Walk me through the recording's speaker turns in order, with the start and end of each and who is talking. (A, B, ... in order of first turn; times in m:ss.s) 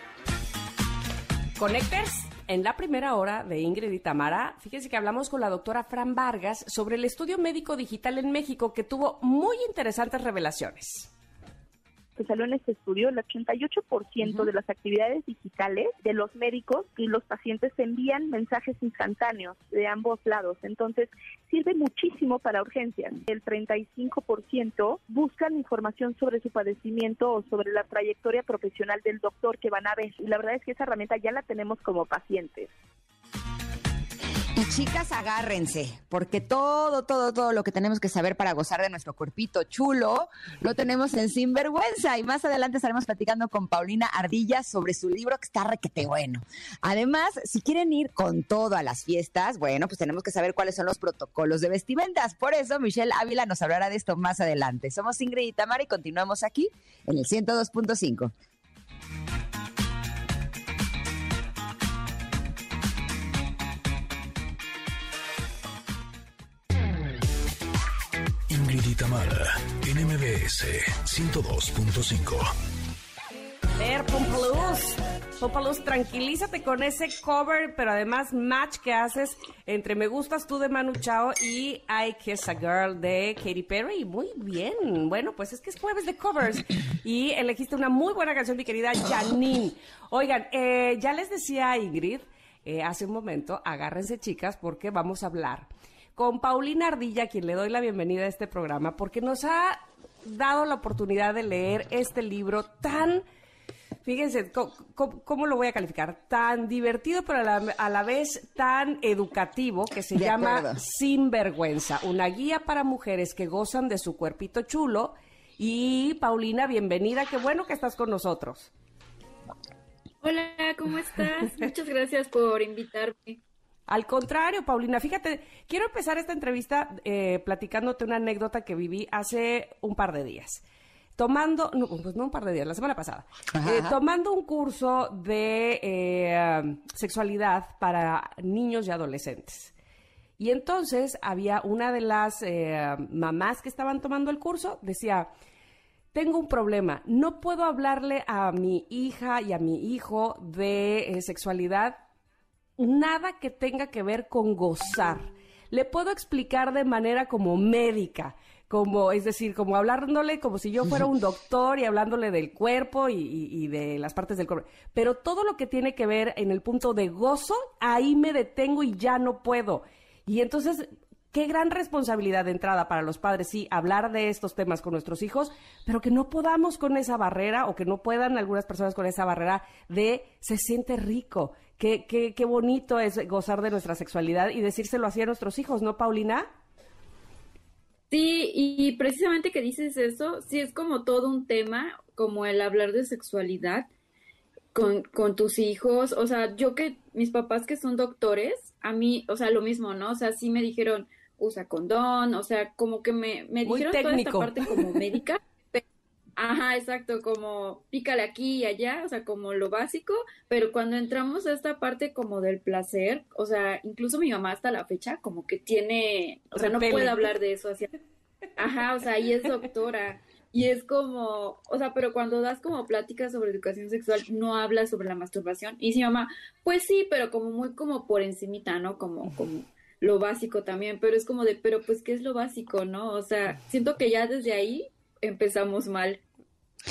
0:01.6-0:11.1 A
0:12.2-0:32.7 B
0:34.5-0:58.3 C
1:08.5-1:12.5 D
1:13.8-1:43.2 A
1:44.0-1:58.7 A
1:50.1-1:50.8 C
2:00.2-2:03.4 E
2:03.9-2:10.6 A
2:11.2-2:19.7 A
2:13.5-2:14.0 C
2:20.4-2:25.3 A
2:26.1-2:32.0 A
2:32.8-3:06.5 A
3:08.1-3:13.9 E
3:14.7-3:25.8 E
3:23.6-3:25.0 A
3:26.4-3:37.9 E
3:36.5-3:37.3 A
3:38.6-3:56.2 E